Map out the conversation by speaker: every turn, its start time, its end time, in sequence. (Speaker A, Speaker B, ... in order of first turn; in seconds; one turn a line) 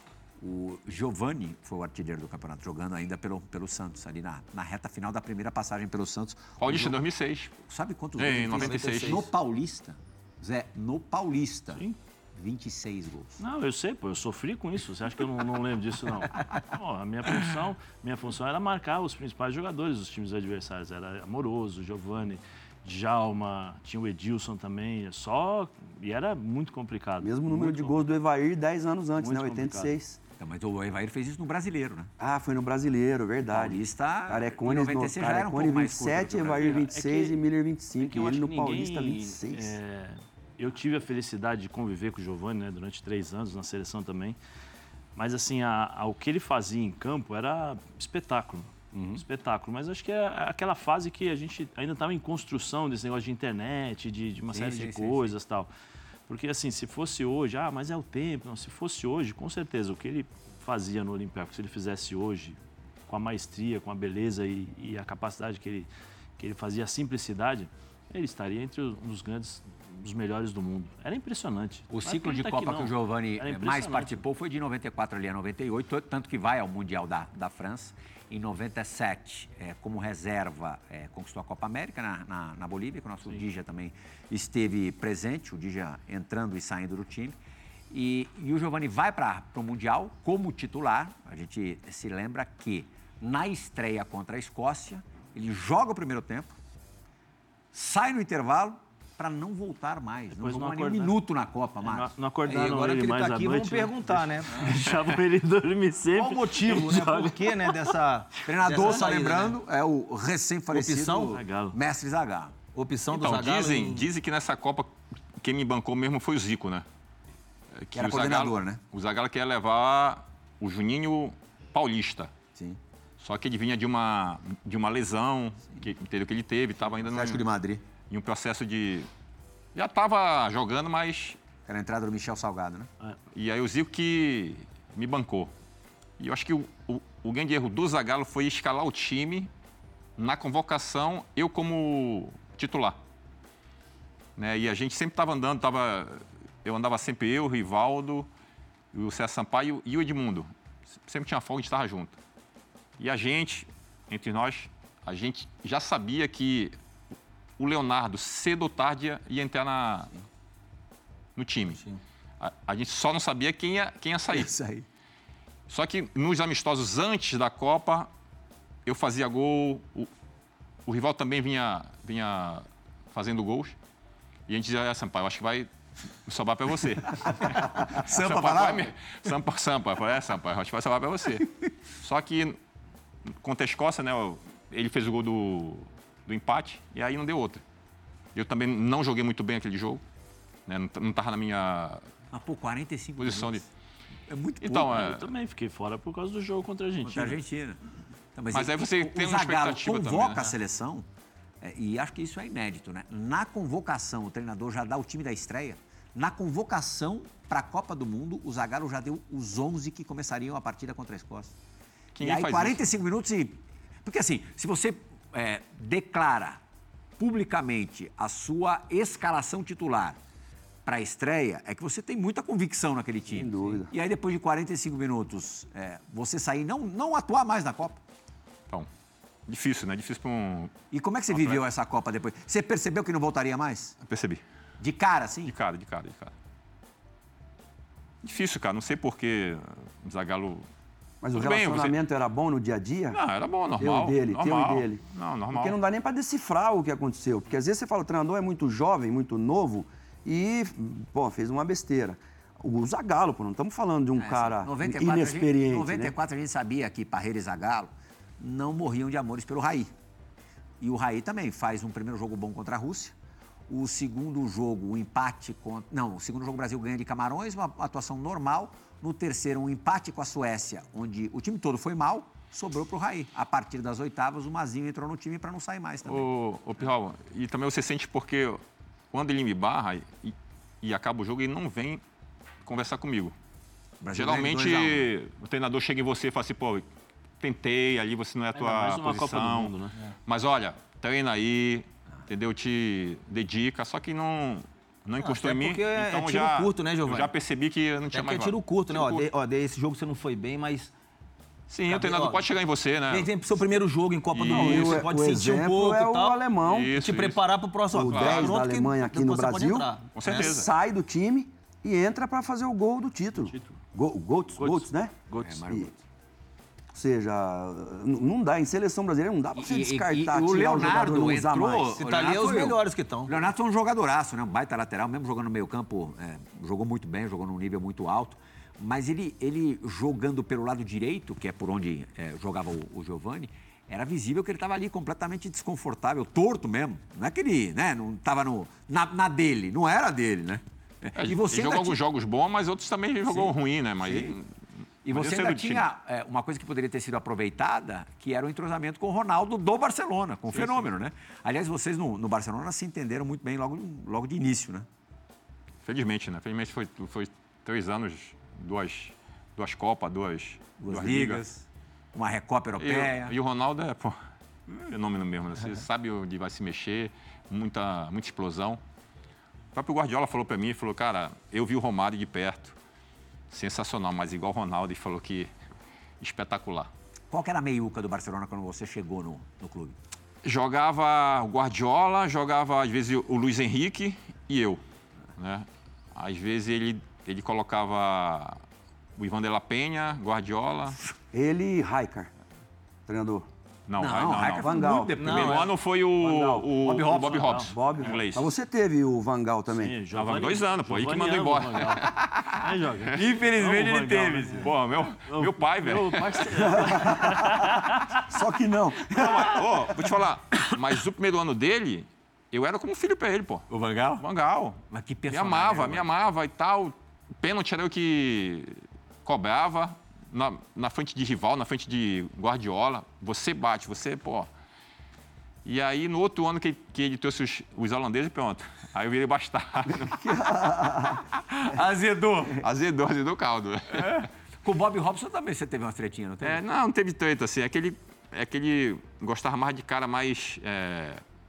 Speaker A: 0.4-7.0
Speaker B: 6.6-7.5
Speaker A: 7.7-13.4
Speaker B: 8.2-9.2
Speaker C: 8.5-9.3
Speaker D: 13.4-28.0
Speaker E: 27.2-30.2
Speaker D: 29.2-29.9
Speaker A: 30.4-32.1
Speaker E: 32.2-39.8
Speaker A: 33.4-36.8
Speaker D: 36.6-37.4
Speaker D: 38.0-44.4
Speaker D: 45.1-55.7
Speaker A: 48.9-49.2
Speaker A: 54.5-55.3
Speaker D: 56.3-74.2
Speaker A: 71.9-87.4
Speaker A: 87.9-96.6
Speaker A: 97.7-102.1
Speaker D: 100.3-101.2
Speaker D: 101.8-107.9
Speaker C: 102.4-104.6
Speaker C: 106.1-109.6
Speaker A: 108.4-112.6
Speaker C: 110.7-111.4
Speaker D: 111.3-111.8
Speaker C: 112.7-114.1
Speaker B: 113.1-116.8
Speaker B: 117.8-122.3
Speaker A: 117.9-118.8
Speaker B: 123.2-127.4
Speaker A: 127.0-127.8
Speaker B: 128.1-129.1
Speaker B: 129.7-131.4
Speaker A: 131.7-132.9
Speaker B: 133.3-135.5
Speaker B: 136.2-139.5
Speaker B: 140.2-143.0
Speaker B: 144.4-148.3
Speaker B: 148.9-150.5
Speaker B: 151.1-152.2
Speaker B: 153.0-156.7
Speaker B: 157.6-160.1
Speaker B: 161.4-161.8
Speaker B: 162.4-164.5
Speaker A: 164.3-164.9
Speaker B: 165.7-168.1
Speaker B: 168.9-170.1
Speaker B: 170.9-173.7
Speaker B: 174.5-175.7
Speaker B: 176.2-182.6
Speaker A: 177.8-178.9
Speaker B: 183.4-187.6
Speaker B: 188.3-190.0
Speaker B: 190.7-192.1
Speaker A: 192.3-193.6
Speaker B: 193.2-193.6
Speaker A: 194.3-195.2
Speaker B: 194.6-195.3
Speaker D: 194.9-197.4
Speaker A: 197.0-197.8
Speaker A: 198.3-201.1
Speaker B: 198.5-200.6
Speaker A: 201.6-211.6
Speaker B: 212.1-212.9
Speaker A: 212.2-216.6
Speaker A: 217.2-220.2
Speaker A: 220.8-228.0
Speaker E: 223.3-223.9
Speaker B: 229.5-230.7
Speaker A: 230.9-233.9
Speaker B: 231.3-231.6
Speaker B: 234.0-234.4
Speaker A: 234.8-235.6
Speaker B: 235.5-236.3
Speaker B: 238.2-240.7
Speaker E: 241.2-243.2
Speaker B: 241.3-242.0
Speaker B: 243.1-245.8
Speaker E: 243.8-256.1
Speaker A: 254.2-259.9
Speaker A: 260.8-263.1
Speaker A: 263.7-276.3
Speaker B: 276.1-278.6
Speaker B: 279.1-282.0
Speaker B: 282.6-283.4
Speaker A: 284.0-285.1
Speaker B: 284.1-286.9
Speaker B: 287.4-289.7
Speaker D: 288.5-289.9
Speaker B: 290.3-299.3
Speaker C: 295.2-297.3
Speaker C: 298.1-300.9
Speaker B: 301.7-303.3
Speaker C: 301.9-302.4
Speaker C: 303.1-306.4
Speaker B: 304.3-305.1
Speaker E: 304.5-307.0
Speaker B: 306.6-307.4
Speaker C: 306.9-310.5
Speaker E: 307.9-315.1
Speaker B: 307.9-308.6
Speaker B: 310.1-310.7
Speaker D: 313.4-313.8
Speaker D: 314.6-315.7
Speaker A: 315.4-316.0
Speaker E: 315.7-315.9
Speaker E: 316.9-322.0
Speaker A: 319.5-342.0
Speaker C: 321.9-323.4
Speaker B: 341.1-344.5
Speaker A: 343.3-344.4
Speaker B: 345.1-345.9
Speaker A: 345.1-354.9
Speaker B: 350.5-350.9
Speaker B: 355.8-361.4
Speaker A: 360.8-363.4
Speaker B: 362.8-364.2
Speaker B: 364.7-368.8
Speaker B: 369.7-372.8
Speaker B: 373.5-375.5
Speaker B: 376.2-376.9
Speaker A: 377.3-380.0
Speaker B: 380.4-384.8
Speaker B: 385.4-388.6
Speaker B: 389.1-391.0
Speaker E: 391.3-392.3
Speaker E: 393.1-393.5
Speaker B: 393.9-398.5
Speaker A: 394.0-397.5
Speaker E: 394.6-395.6
Speaker D: 396.9-397.8
Speaker E: 397.6-399.9
Speaker D: 399.7-404.7
Speaker B: 400.1-406.8
Speaker A: 403.1-404.6
Speaker D: 405.3-408.2
Speaker E: 406.7-409.9
Speaker B: 409.1-424.5
Speaker A: 413.7-414.2
Speaker A: 414.9-416.1
Speaker B: 425.6-430.4
Speaker E: 430.2-431.2
Speaker A: 431.6-432.6
Speaker B: 432.6-434.3
Speaker A: 433.9-436.6
Speaker B: 436.4-441.2